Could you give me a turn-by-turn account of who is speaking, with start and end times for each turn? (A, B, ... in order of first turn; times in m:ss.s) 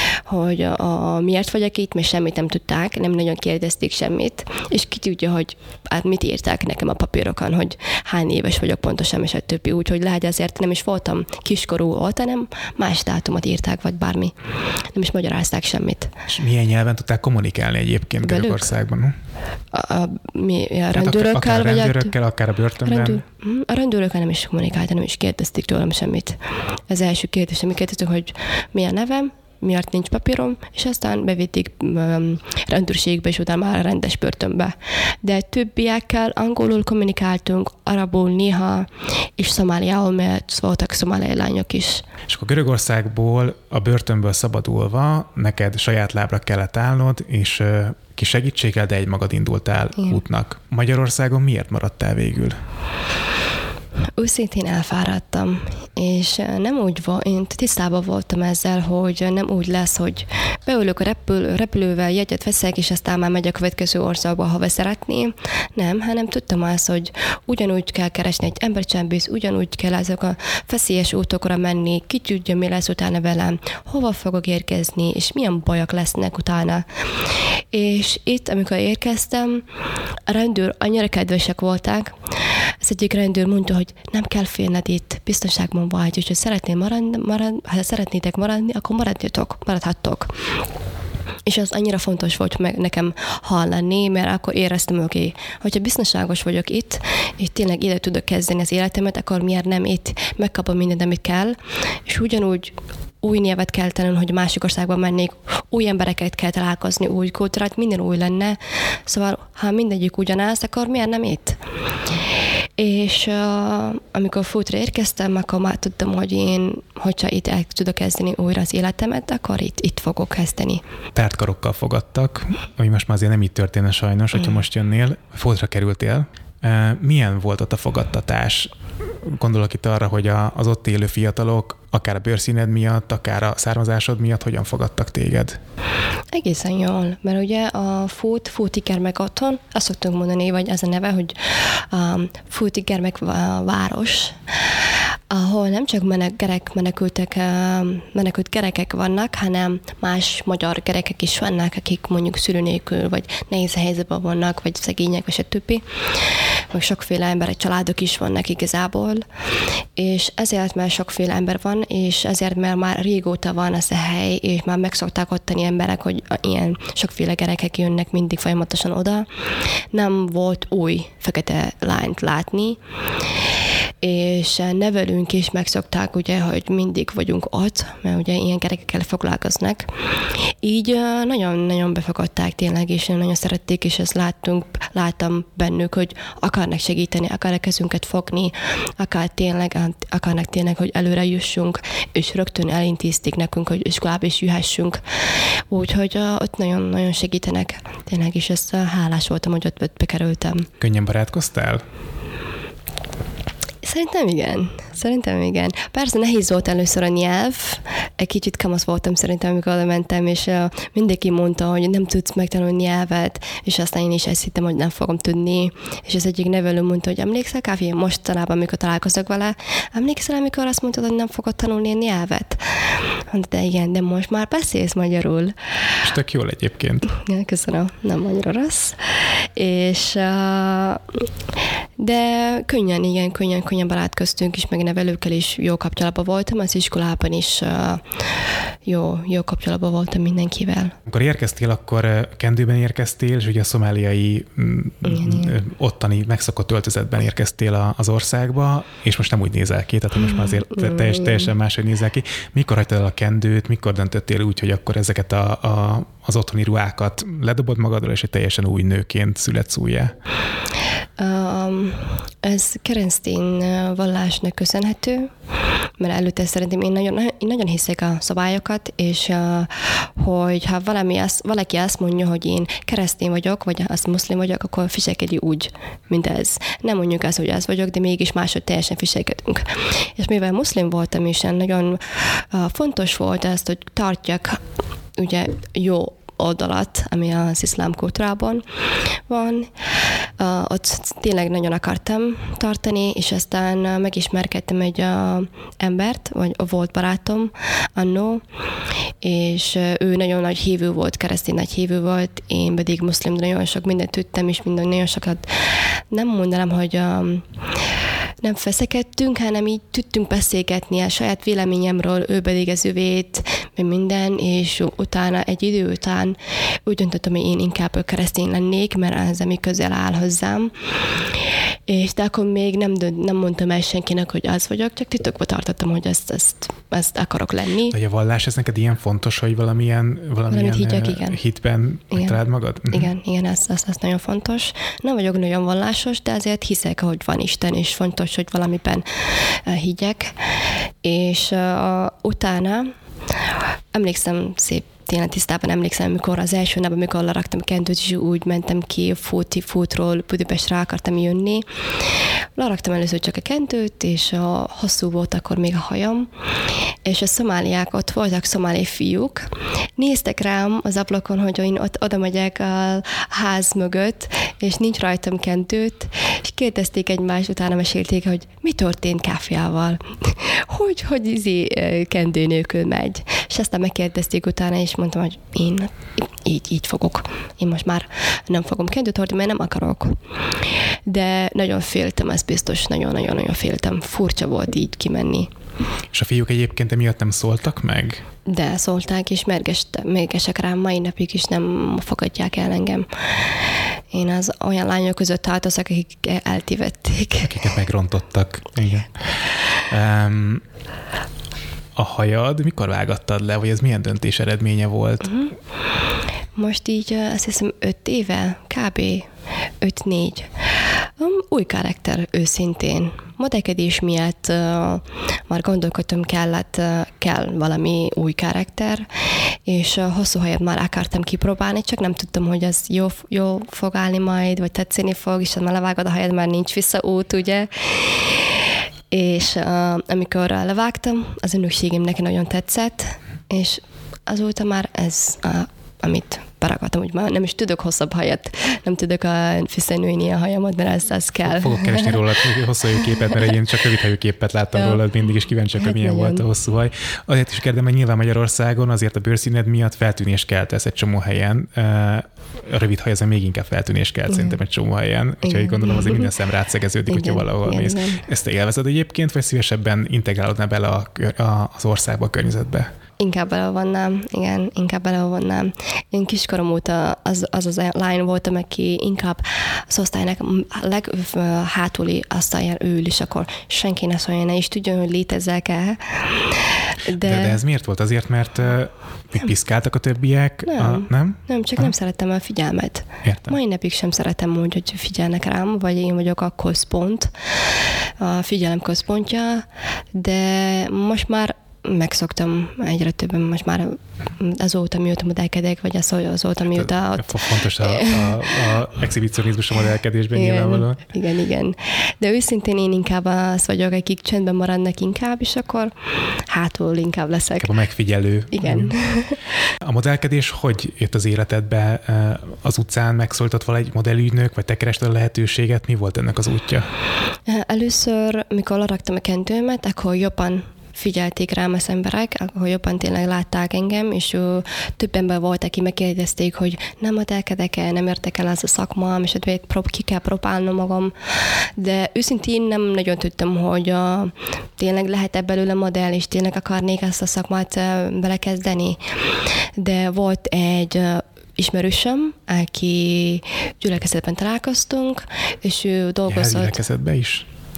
0:00.3-0:14.3 A
0:14.9-0:16.1 A
0:16.3-0:19.1 B
0:18.2-0:18.7 A
0:19.7-0:22.1 A
0:20.9-0:23.2 B
0:22.8-0:26.4 A
0:26.9-0:42.0 A
0:42.3-0:52.6 B
0:54.2-1:16.8 A
1:17.7-1:19.6 A
1:20.3-1:22.2 A
1:22.8-1:30.3 A
1:31.4-1:51.6 A
1:52.8-2:00.8 A
2:01.1-2:08.7 B
2:09.2-2:15.6 B
2:16.3-2:24.4 A
2:25.3-2:35.8 A
2:36.7-2:39.2 A
2:40.0-2:49.2 A
2:49.9-2:52.8 A
2:54.0-2:59.9 A
3:00.6-3:20.7 A
3:20.8-3:21.8 B
3:23.8-3:45.5 A
3:46.0-3:47.1 B
3:47.0-3:51.2 A
3:52.0-3:58.0 A
3:58.8-4:01.0 A
4:01.0-4:20.1 B
4:05.1-4:05.5 A
4:10.3-4:11.5 A
4:21.2-4:25.3 A
4:26.0-4:44.6 A
4:45.2-4:48.6 A
4:49.3-4:49.7 A
4:50.4-4:58.4 A
4:59.2-5:07.4 A
5:08.4-5:20.7 A
5:21.9-5:27.9 A
5:27.9-5:33.1 B
5:30.5-5:31.4 A
5:32.1-5:32.4 A
5:32.9-5:40.5 A
5:41.0-5:42.9 A
5:43.9-5:51.6 A
5:52.6-5:56.3 A
5:57.0-6:20.2 A
6:21.0-6:25.5 A
6:26.1-6:28.2 B
6:28.4-6:37.6 A
6:37.4-6:40.6 B
6:42.0-6:45.4 B
6:46.6-6:49.3 A
6:49.8-6:50.5 A
6:51.2-6:59.1 A
6:59.6-7:22.2 A
7:21.4-7:42.9 B
7:24.7-7:25.0 A
7:25.8-7:26.4 A
7:34.3-7:34.6 A
7:35.4-7:36.3 A
7:37.1-7:38.2 A
7:43.2-7:57.6 A
7:57.2-8:01.9 B
8:00.6-8:07.3 A
8:03.2-8:03.6 B
8:08.2-8:18.5 A
8:16.7-8:21.0 B
8:20.3-8:25.9 A
8:26.5-8:27.7 A
8:27.6-8:29.0 B
8:28.5-8:29.4 A
8:29.8-8:36.9 B
8:37.5-8:59.0 A
8:59.8-9:06.8 A
9:06.3-9:07.4 B